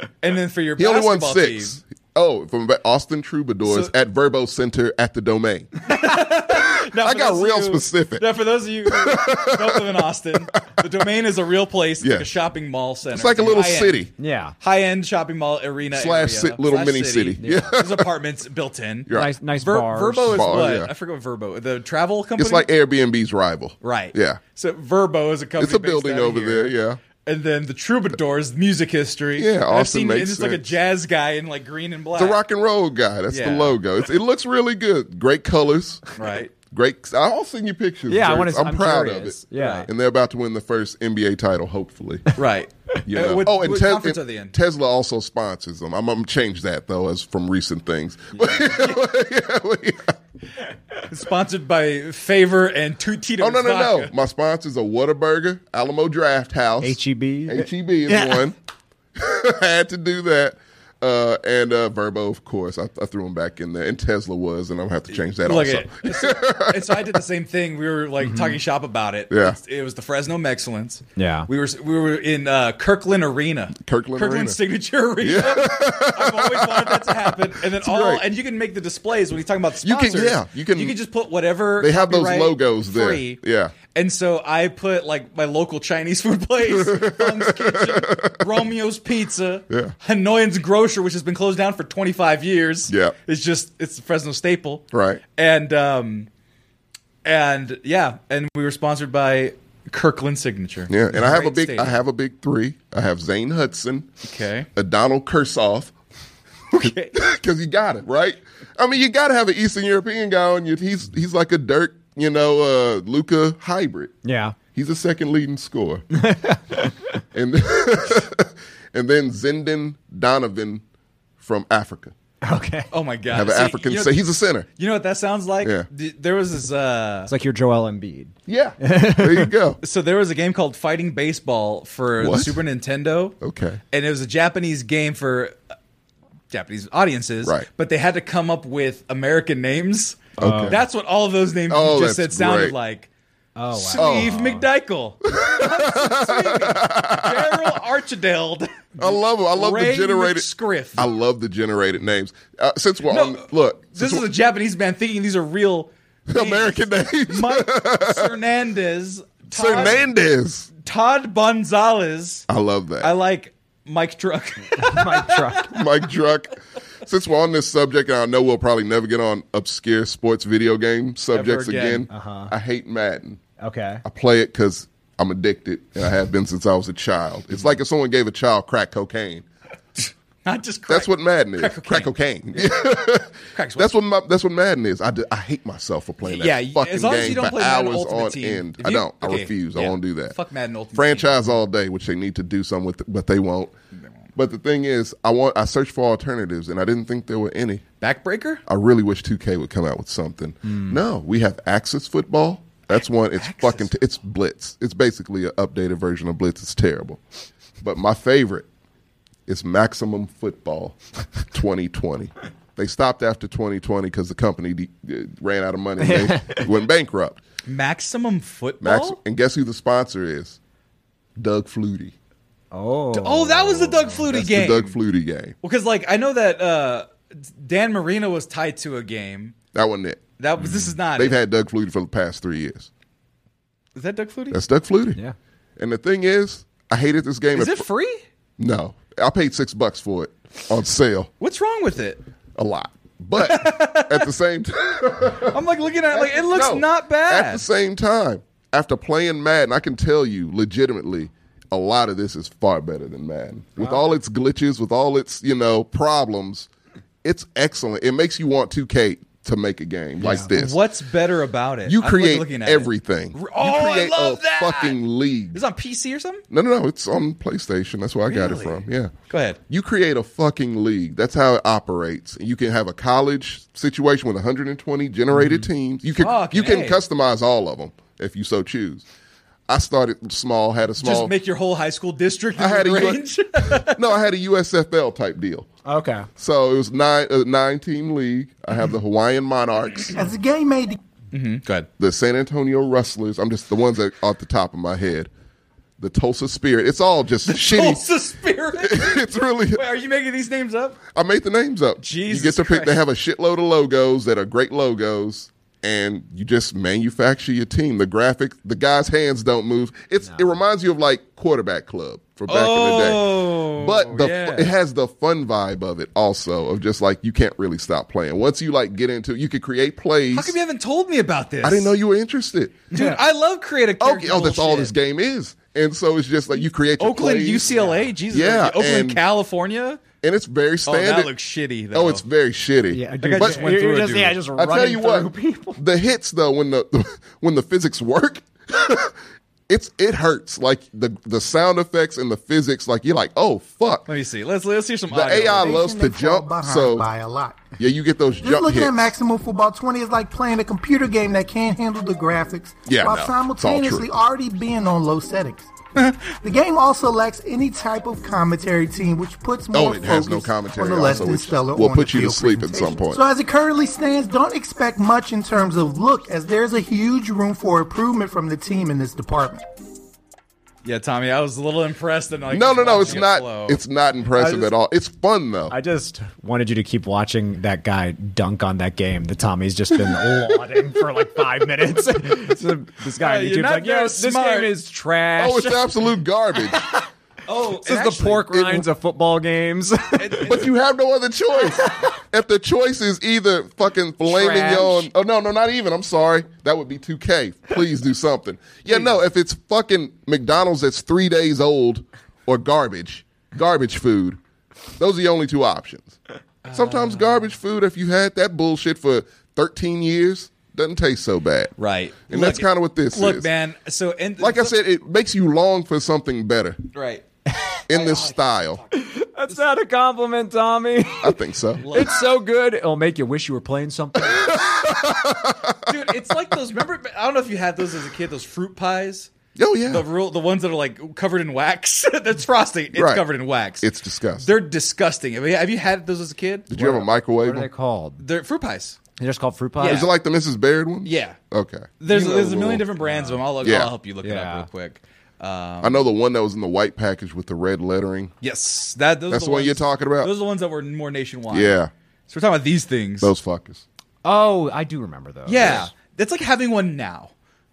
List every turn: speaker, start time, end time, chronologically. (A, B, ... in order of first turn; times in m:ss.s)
0:00.2-0:01.8 A
0:00.8-0:05.9 B
0:03.7-0:03.9 A
0:05.9-0:22.7 A
0:06.7-0:08.3 B
0:08.9-0:09.9 B
0:12.0-0:12.3 B
0:13.1-0:14.1 B
0:14.2-0:14.6 C
0:15.9-0:18.1 B
0:17.4-0:17.7 C
0:19.1-0:19.3 B
0:19.1-0:20.6 C
0:20.3-0:20.9 B
0:22.4-0:24.4 B
0:23.8-0:32.4 A
0:25.6-0:27.0 B
0:29.4-0:30.7 B
0:32.2-0:42.4 B
0:33.3-0:33.8 A
0:36.2-0:36.5 A
0:38.1-0:39.9 C
0:39.6-0:39.9 A
0:42.4-0:44.5 A
0:43.1-0:50.2 B
0:48.4-0:49.0 A
0:51.1-0:54.1 A
0:53.4-0:58.6 B
0:56.8-0:58.4 C
0:59.2-1:07.2 B
1:05.1-1:23.4 A
1:08.2-1:08.6 C
1:09.3-1:09.6 B
1:11.2-1:11.5 C
1:13.8-1:14.6 B
1:15.2-1:18.2 B
1:19.8-1:21.0 B
1:21.8-1:23.7 B
1:23.9-1:36.3 A
1:26.6-1:28.5 B
1:32.9-1:33.2 B
1:34.9-1:35.2 B
1:37.2-1:42.0 A
1:40.9-1:44.1 B
1:44.2-1:44.7 A
1:44.8-1:45.9 B
1:46.7-1:47.2 A
1:46.7-1:54.1 B
1:54.2-1:54.6 C
1:54.8-1:56.0 B
1:56.1-1:57.2 C
1:57.3-2:00.8 B
2:01.4-2:02.1 B
2:02.4-2:02.9 C
2:02.9-2:04.2 A
2:03.3-2:04.7 B
2:04.8-2:07.3 A
2:07.3-2:09.5 C
2:08.5-2:09.8 B
2:09.8-2:13.4 A
2:12.2-2:12.6 B
2:13.4-2:13.8 B
2:13.9-2:15.6 A
2:16.5-2:23.1 A
2:20.4-2:20.8 C
2:20.4-2:20.8 B
2:21.7-2:22.8 B
2:23.6-2:24.6 C
2:23.7-2:31.1 A
2:24.0-2:24.3 B
2:25.4-2:27.8 B
2:29.0-2:34.3 B
2:33.1-2:40.0 A
2:36.3-2:38.3 B
2:39.5-2:40.7 B
2:40.8-2:42.5 A
2:42.5-2:43.2 B
2:43.0-2:45.7 A
2:44.8-2:45.7 C
2:45.7-2:53.4 B
2:51.3-2:52.1 A
2:52.1-2:52.5 C
2:53.6-2:54.0 C
2:54.0-2:59.5 B
3:00.4-3:02.1 A
3:00.9-3:10.4 B
3:03.5-3:03.9 A
3:06.2-3:11.3 A
3:10.9-3:13.7 B
3:14.4-3:17.8 B
3:18.0-3:18.6 A
3:18.7-3:27.2 B
3:20.7-3:21.0 C
3:22.9-3:23.9 A
3:27.8-3:28.7 B
3:29.5-3:37.4 B
3:36.0-3:36.7 C
3:37.7-3:39.2 A
3:38.8-3:40.6 B
3:41.4-3:42.1 B
3:42.7-3:44.2 C
3:43.1-3:45.0 A
3:44.2-3:45.5 B
3:45.6-3:49.6 A
3:49.7-3:50.2 B
3:50.4-3:51.4 A
3:51.2-3:52.9 B
3:54.0-3:54.6 A
3:54.5-3:55.2 B
3:55.8-3:57.9 B
3:57.6-3:58.2 A
3:58.6-4:01.3 B
4:01.4-4:02.2 A
4:02.6-4:05.6 B
4:03.4-4:04.3 A
4:05.4-4:07.6 A
4:06.1-4:16.7 B
4:17.2-4:20.8 B
4:20.2-4:20.5 C
4:20.4-4:25.0 A
4:21.9-4:25.6 B
4:25.5-4:26.4 A
4:26.5-4:29.1 B
4:28.3-4:29.6 A
4:29.7-4:39.1 B
4:35.4-4:35.7 A
4:36.2-4:37.0 A
4:39.7-4:41.3 B
4:41.0-4:44.0 A
4:42.6-4:45.7 B
4:45.8-4:46.3 C
4:46.4-4:50.2 B
4:50.2-4:51.0 D
4:51.3-4:51.9 A
4:52.0-4:55.3 B
4:56.0-4:58.1 B
4:57.5-5:01.0 A
4:58.8-4:59.8 B
5:01.1-5:20.6 B
5:02.0-5:03.0 A
5:12.5-5:14.7 A
5:20.3-5:22.0 A
5:21.6-5:22.9 B
5:22.9-5:24.9 A
5:22.9-5:23.2 C
5:24.0-5:27.8 B
5:27.0-5:30.0 A
5:27.7-5:28.1 C
5:28.3-5:29.2 B
5:30.2-5:31.3 B
5:30.9-5:32.2 A
5:31.9-5:33.7 B
5:32.9-5:35.8 C
5:33.2-5:34.4 A
5:34.5-5:39.2 B
5:39.7-5:44.1 B
5:44.1-5:45.8 A
5:45.1-5:47.1 B
5:45.6-5:47.7 D
5:47.8-5:49.1 B
5:48.4-5:55.7 D
5:52.9-5:54.1 B
5:56.4-6:09.6 D
5:59.7-6:03.2 B
6:10.8-6:13.8 A
6:12.5-6:15.8 B
6:14.4-6:14.7 C
6:15.7-6:25.8 C
6:23.2-6:24.7 A
6:25.4-6:26.8 B
6:27.5-6:28.6 A
6:27.8-6:30.4 C
6:28.5-6:28.9 B
6:30.2-6:30.7 A
6:30.4-6:44.4 B
6:34.2-6:35.1 C
6:45.0-6:46.2 B
6:46.6-6:47.5 A
6:46.7-6:51.7 B
6:51.8-6:54.7 A
6:52.3-6:53.5 B
6:54.4-6:56.8 B
6:56.9-6:57.2 A
6:57.9-6:58.8 B
6:57.9-6:59.6 A
6:58.9-7:01.4 C
7:01.2-7:01.9 B
7:01.8-7:02.2 A
7:01.9-7:04.6 C
7:04.2-7:06.2 B
7:05.9-7:09.3 A
7:09.6-7:10.1 B
7:09.9-7:16.8 A
7:12.9-7:13.3 B
7:13.8-7:14.5 B
7:16.7-7:17.7 B
7:16.8-7:18.2 C
7:18.2-7:19.0 A
7:19.2-7:20.1 C
7:19.8-7:20.1 A
7:19.8-7:22.8 B
7:21.0-7:21.4 A
7:22.0-7:26.0 A
7:23.0-7:23.4 C
7:23.6-7:23.9 B
7:24.2-7:24.7 C
7:25.8-7:28.3 B
7:28.4-7:33.3 A
7:29.3-7:30.3 B
7:31.5-7:31.9 B
7:33.2-7:33.8 B
7:34.2-7:35.9 C
7:35.5-7:37.3 A